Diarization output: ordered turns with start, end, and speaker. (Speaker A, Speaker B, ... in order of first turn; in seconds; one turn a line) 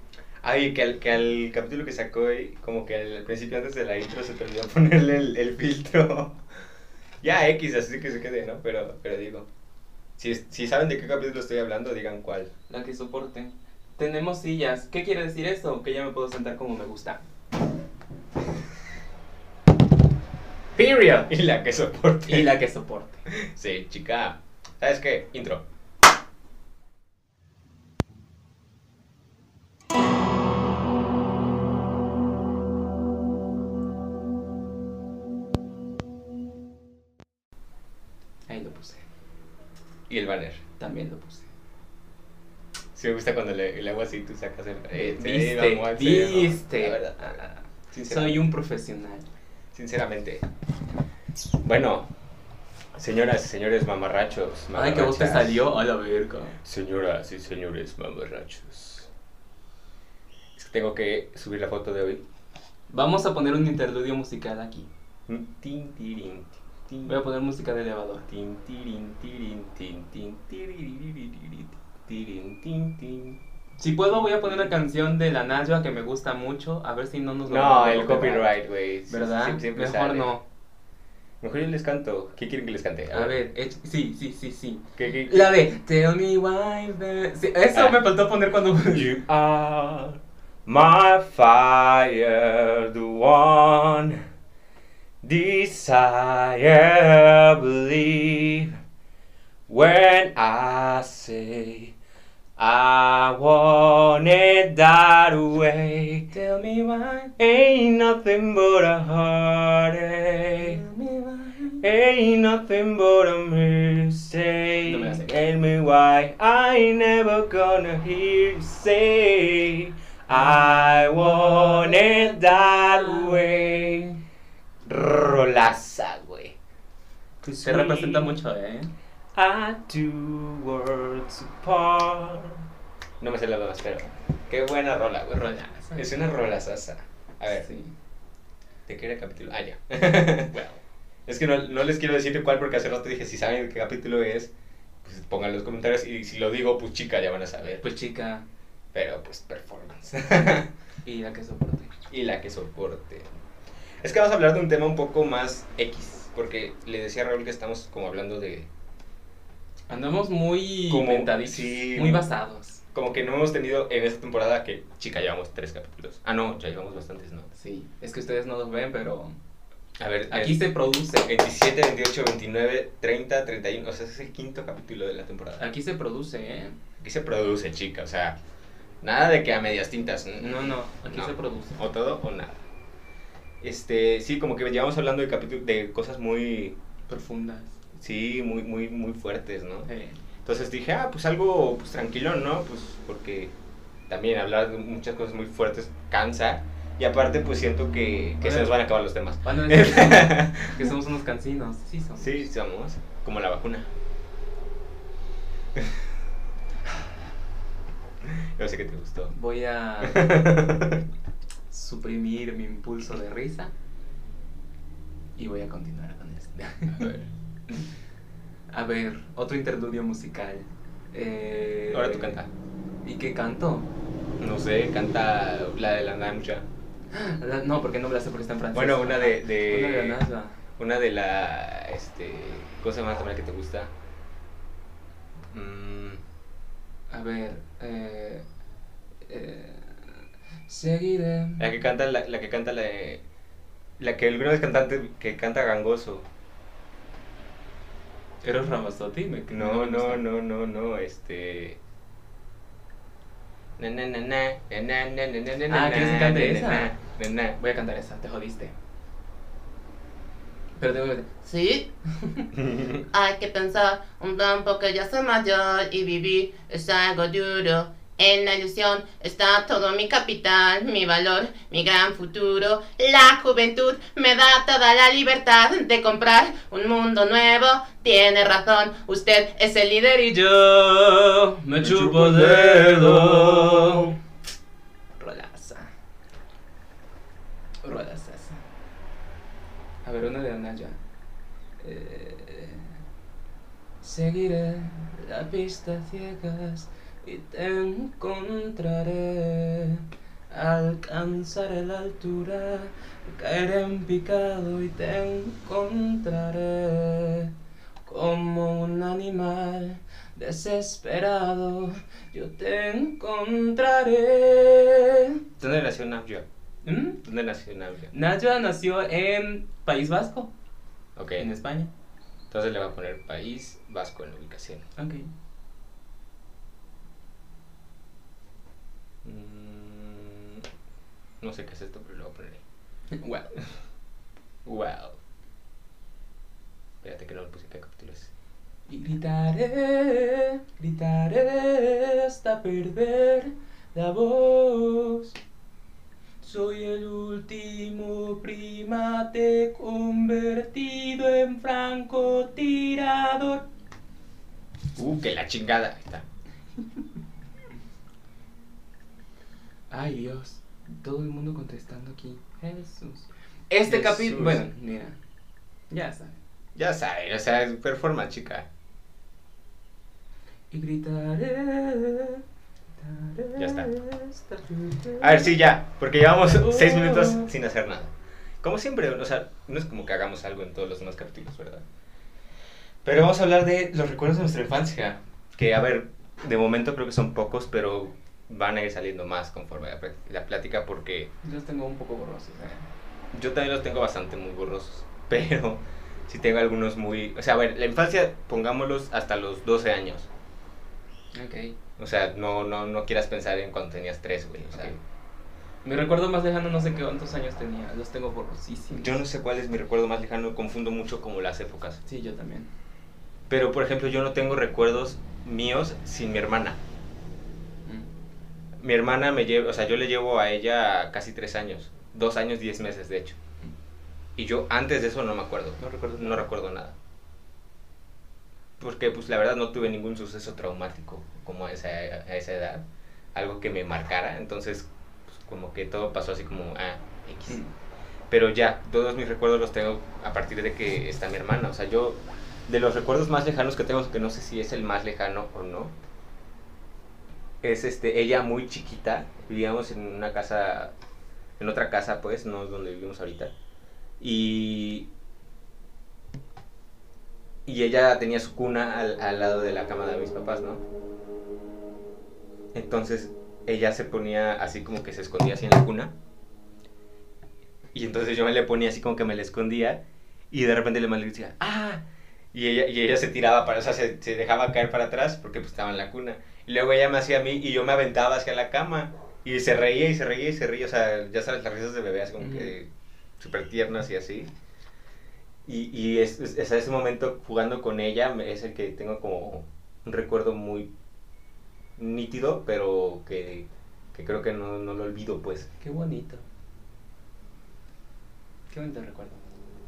Speaker A: 0.4-6.4
Speaker A: 7.2-9.5
Speaker A: 10.2-12.5
Speaker B: 12.7-17.2
Speaker B: 20.8-21.3
Speaker A: 21.3-22.6
Speaker B: 22.2-23.3
Speaker A: 23.3-25.6
Speaker B: 38.5-39.0
Speaker A: 40.1-40.6
Speaker B: 40.8-41.5
Speaker A: 42.9-47.4
Speaker B: 44.9-49.3
Speaker A: 47.9-48.5
Speaker A: 49.7-50.4
Speaker A: 51.6-52.1
Speaker A: 52.9-55.6
Speaker B: 54.7-56.6
Speaker A: 56.6-59.1
Speaker A: 60.5-62.2
Speaker B: 62.9-64.9
Speaker A: 65.3-67.2
Speaker B: 67.0-68.3
Speaker A: 68.3-73.4
Speaker B: 73.8-78.5
Speaker A: 74.2-74.7
Speaker A: 77.5-80.3
Speaker B: 79.1-80.4
Speaker A: 81.4-83.4
Speaker B: 83.1-89.2
Speaker A: 85.0-85.5
Speaker A: 87.7-88.0
Speaker A: 88.9-94.2
Speaker A: 95.2-98.8
Speaker A: 99.7-101.9
Speaker A: 102.6-106.3
Speaker B: 106.3-107.3
Speaker A: 107.4-110.8
Speaker B: 110.6-111.8
Speaker A: 111.8-124.2
Speaker B: 114.8-115.3
Speaker B: 120.3-123.9
Speaker A: 124.8-126.5
Speaker A: 127.4-128.3
Speaker B: 127.6-128.9
Speaker A: 129.3-132.6
Speaker A: 133.2-135.4
Speaker B: 135.3-136.2
Speaker A: 135.9-137.7
Speaker B: 137.5-137.9
Speaker A: 138.9-140.5
Speaker B: 140.5-140.8
Speaker A: 141.3-144.5
Speaker A: 145.0-147.8
Speaker B: 147.8-148.4
Speaker A: 148.9-150.7
Speaker B: 151.0-151.9
Speaker A: 152.1-153.4
Speaker A: 154.0-158.7
Speaker B: 159.9-162.8
Speaker A: 160.9-162.2
Speaker A: 162.9-167.5
Speaker B: 167.5-169.4
Speaker A: 170.0-170.7
Speaker B: 170.3-171.3
Speaker A: 171.2-175.6
Speaker B: 175.6-176.7
Speaker A: 177.0-178.4
Speaker A: 179.0-182.6
Speaker B: 180.4-181.8
Speaker A: 183.6-186.8
Speaker B: 187.1-187.8
Speaker A: 187.9-189.9
Speaker B: 189.9-190.2
Speaker A: 190.4-193.5
Speaker A: 194.1-200.9
Speaker B: 198.4-198.7
Speaker B: 199.4-202.5
Speaker A: 202.2-203.9
Speaker A: 208.2-209.3
Speaker B: 209.3-210.6
Speaker A: 210.0-211.0
Speaker B: 211.7-213.7
Speaker B: 215.4-217.1
Speaker A: 216.9-217.3
Speaker B: 218.7-222.3
Speaker A: 221.9-222.5
Speaker B: 223.0-223.9
Speaker A: 224.4-226.6
Speaker B: 227.1-230.6
Speaker A: 228.7-230.2
Speaker A: 230.8-233.9
Speaker A: 235.5-236.2
Speaker B: 237.1-238.4
Speaker B: 239.3-241.7
Speaker A: 241.6-243.2
Speaker A: 244.0-246.3
Speaker B: 248.4-250.2
Speaker A: 249.5-251.8
Speaker A: 253.8-257.6
Speaker B: 255.7-256.9
Speaker B: 257.6-258.7
Speaker B: 260.8-261.3
Speaker C: 261.4-261.9
Speaker B: 262.1-262.5
Speaker A: 262.5-263.0
Speaker C: 263.1-280.4
Speaker B: 280.4-284.1
Speaker A: 281.8-284.1
Speaker B: 285.2-285.9
Speaker B: 287.8-288.6
Speaker B: 290.0-291.0
Speaker B: 291.8-292.9
Speaker B: 294.0-307.5
Speaker B: 308.1-315.4
Speaker A: 315.6-316.4
Speaker B: 316.8-317.2
Speaker A: 317.2-318.1
Speaker B: 318.1-320.5
Speaker A: 321.1-321.5
Speaker B: 321.4-321.9
Speaker A: 322.5-324.8
Speaker B: 324.9-325.3
Speaker A: 329.2-330.6
Speaker A: 331.4-332.6
Speaker B: 333.1-333.5
Speaker A: 334.6-335.2
Speaker A: 337.0-338.3
Speaker B: 338.9-345.3
Speaker B: 346.4-353.6
Speaker A: 354.9-356.2
Speaker B: 359.9-365.2
Speaker A: 363.8-364.6
Speaker B: 365.9-366.4
Speaker A: 366.8-368.7
Speaker B: 370.7-372.4
Speaker B: 373.0-375.6
Speaker A: 373.6-373.9
Speaker A: 375.2-381.8
Speaker B: 376.4-377.4
Speaker A: 383.0-391.3
Speaker B: 391.4-392.9
Speaker A: 393.3-400.3
Speaker B: 401.3-401.8
Speaker A: 402.0-405.0
Speaker B: 405.8-409.2
Speaker A: 408.9-412.0
Speaker B: 412.0-412.7
Speaker A: 413.5-416.8
Speaker A: 418.8-423.4
Speaker A: 424.4-426.9
Speaker B: 425.8-426.5
Speaker A: 428.8-437.6
Speaker A: 438.3-445.9
Speaker A: 447.6-450.9
Speaker A: 451.6-453.5
Speaker A: 454.2-455.1
Speaker A: 457.6-460.8
Speaker A: 462.7-466.1
Speaker A: 467.9-484.5
Speaker B: 482.4-482.7
Speaker A: 485.6-490.9
Speaker A: 492.0-495.7
Speaker B: 495.8-496.4
Speaker B: 498.7-499.4